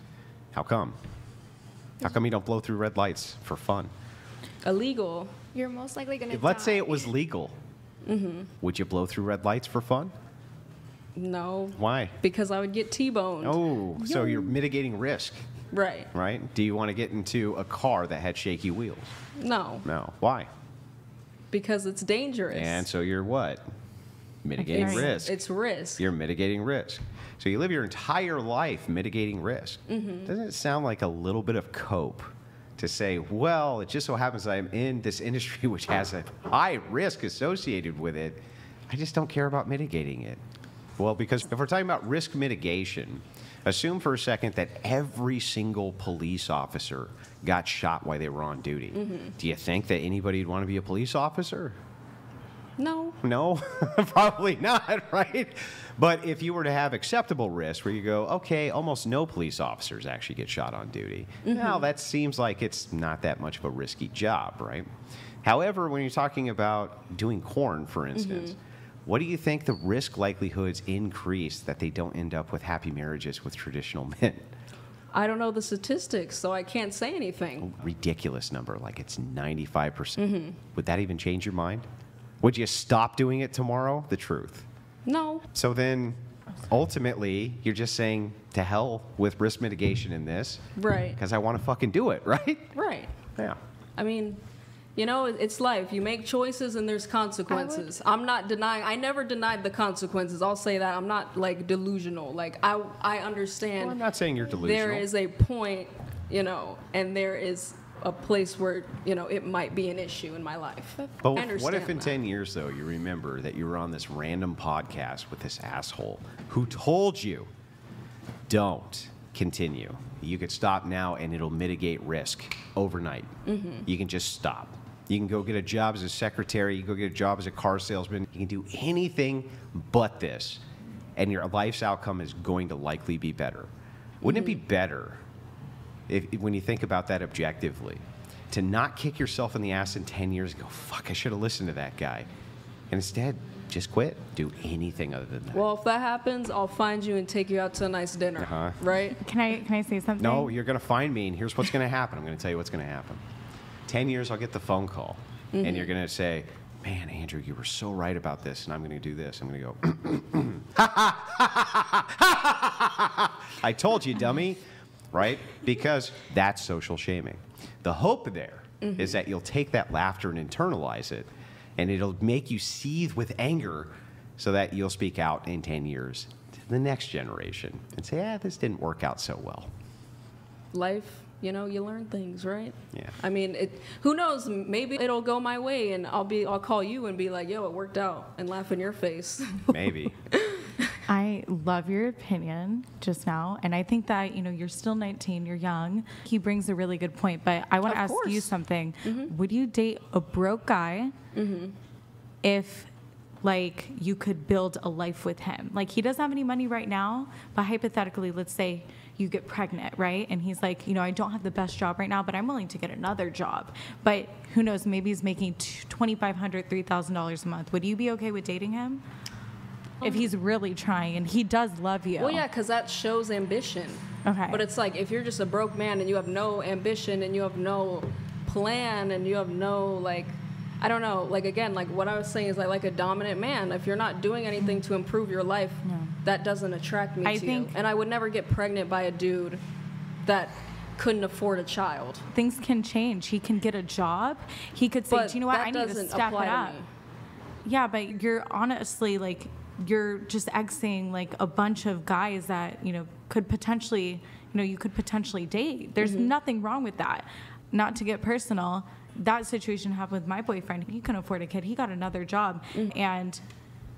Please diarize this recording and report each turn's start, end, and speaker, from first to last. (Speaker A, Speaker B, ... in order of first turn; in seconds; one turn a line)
Speaker A: 0.5-1.0
Speaker A: 2.0-3.9
Speaker B: 4.6-5.3
Speaker C: 5.5-7.1
Speaker A: 6.3-7.6
Speaker B: 8.1-8.5
Speaker A: 8.6-10.1
Speaker B: 11.2-13.6
Speaker A: 11.8-12.2
Speaker A: 13.4-15.4
Speaker C: 14.0-14.5
Speaker B: 15.7-16.1
Speaker A: 16.1-19.1
Speaker B: 19.4-19.9
Speaker A: 19.8-20.5
Speaker B: 21.5-22.9
Speaker A: 22.5-23.7
Speaker A: 24.4-25.4
Speaker D: 24.6-25.2
Speaker B: 24.7-26.0
Speaker A: 26.0-40.4
Speaker B: 29.9-30.3
Speaker A: 41.0-51.8
Speaker B: 48.9-49.3
Speaker B: 52.8-53.2
Speaker A: 53.2-64.9
Speaker B: 61.5-61.9
Speaker A: 65.4-74.5
Speaker B: 68.2-68.5
Speaker B: 75.1-77.7
Speaker A: 77.6-81.9
Speaker B: 80.2-80.6
Speaker A: 82.4-84.7
Speaker B: 85.1-85.5
Speaker A: 85.5-90.6
Speaker B: 90.8-91.2
Speaker A: 91.2-92.7
Speaker B: 92.8-93.1
Speaker B: 94.0-94.4
Speaker B: 95.0-104.0
Speaker A: 103.8-105.1
Speaker B: 104.6-112.2
Speaker A: 111.2-117.5
Speaker A: 118.5-123.3
Speaker B: 123.5-123.9
Speaker A: 123.8-130.6
Speaker A: 131.2-133.7
Speaker B: 134.2-134.6
Speaker A: 134.2-135.2
Speaker A: 136.1-142.3
Speaker A: 142.9-145.6
Speaker B: 145.5-149.2
Speaker A: 148.4-148.8
Speaker D: 149.2-150.6
Speaker A: 150.2-153.2
Speaker A: 153.9-179.7
Speaker B: 155.5-155.9
Speaker B: 168.8-169.2
Speaker B: 180.7-189.7
Speaker A: 189.7-190.2
Speaker B: 190.3-190.8
Speaker D: 191.1-201.2
Speaker B: 197.8-198.5
Speaker B: 199.0-199.3
Speaker B: 201.3-201.8
Speaker D: 202.4-202.9
Speaker D: 203.4-219.0
Speaker D: 220.0-222.4
Speaker B: 222.2-239.6
Speaker D: 224.2-224.7
Speaker D: 235.8-236.1
Speaker D: 237.2-237.8
Speaker B: 240.2-242.3
Speaker D: 242.3-246.8
Speaker B: 245.1-246.9
Speaker D: 247.7-263.4
Speaker B: 256.0-256.3